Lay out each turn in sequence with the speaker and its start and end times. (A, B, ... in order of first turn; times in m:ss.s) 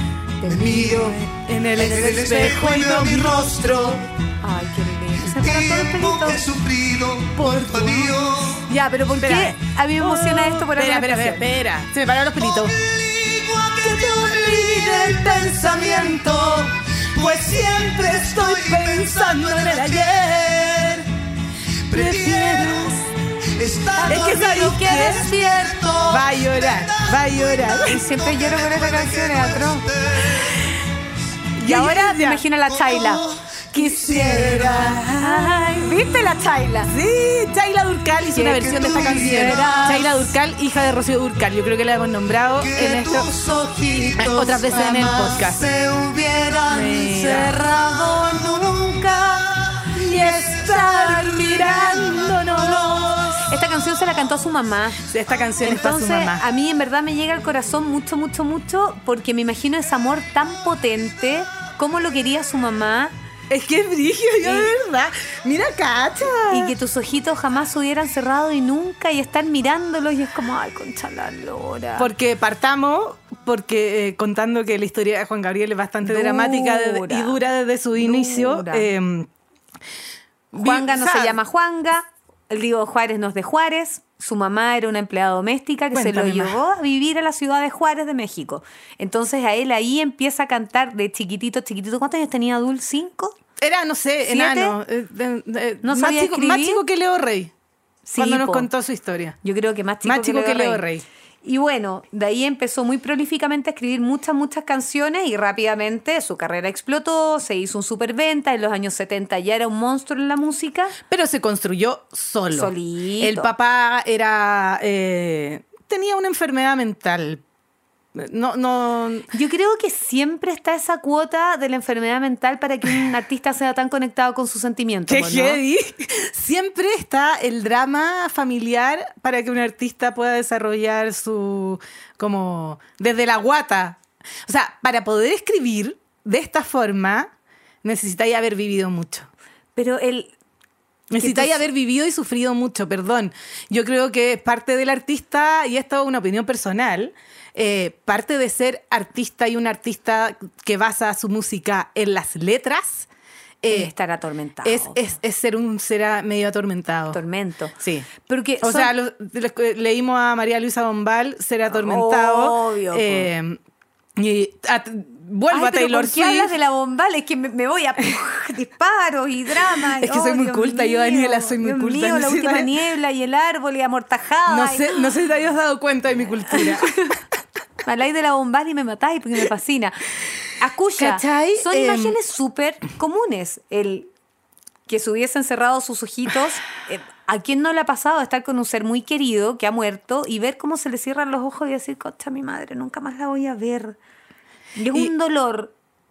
0:00.4-0:01.2 A
0:00.5-0:01.1 B
0:00.9-0:04.0 C
0:01.8-0:04.0 B
0:04.4-0:06.5 A
0:05.2-0:08.6 B
0:07.3-0:12.8 C
0:08.7-0:11.4 A
0:12.5-0:21.0 B
0:13.8-0:21.1 C
0:21.9-0:23.0 B
0:21.9-0:23.1 C
0:23.6-0:30.5 B
0:23.9-0:25.8 A
0:24.0-0:25.3 C
0:26.1-0:28.1 C
0:27.8-0:29.9 A
0:31.6-0:32.4 C
0:31.6-0:36.9 A
0:32.7-0:33.4 B
0:33.7-0:36.2 C
0:34.1-0:35.0 B
0:36.9-0:43.3 C
0:38.3-0:40.2 A
0:38.6-0:39.8 B
0:42.6-0:46.6 B
0:44.1-0:45.7 C
0:46.3-0:49.7 A
0:46.6-0:47.6 C
0:49.8-0:53.5 C
0:50.7-0:52.2 A
0:53.4-0:55.0 A
0:55.1-0:56.4 C
0:55.6-1:03.1 A
1:03.5-1:06.7 C
1:04.4-1:04.7 A
1:06.5-1:12.1 A
1:12.0-1:19.3 C
1:16.0-1:17.4 A
1:18.0-1:18.9 A
1:20.5-1:21.4 C
1:20.5-1:33.4 A
1:25.9-1:26.6 C
1:33.6-1:37.5 C
1:34.3-1:34.8 A
1:35.8-1:36.8 A
1:38.0-1:38.7 A
1:38.2-1:39.4 C
1:39.4-1:40.8 A
1:40.0-1:41.0 C
1:41.4-1:51.0 A
1:51.1-1:57.4 C
1:52.5-1:53.5 A
1:58.1-1:59.3 C
1:59.3-2:05.6 A
2:05.1-2:17.3 C
2:17.8-2:19.3 C
2:19.8-2:20.3 A
2:21.1-2:33.1 C
2:21.1-2:21.6 A
2:33.6-2:33.9 C
2:33.7-2:35.0 A
2:34.6-2:37.2 C
2:37.1-2:38.9 A
2:37.8-2:38.1 C
2:38.6-2:43.6 C
2:41.7-2:43.3 A
2:44.2-2:46.5 C
2:45.5-2:55.0 A
2:49.9-2:52.7 C
2:54.5-2:57.1 C
2:56.5-2:57.2 A
2:57.8-3:00.0 A
3:00.6-3:04.1 A
3:01.0-3:02.2 C
3:04.9-3:14.0 A
3:14.8-3:15.7 A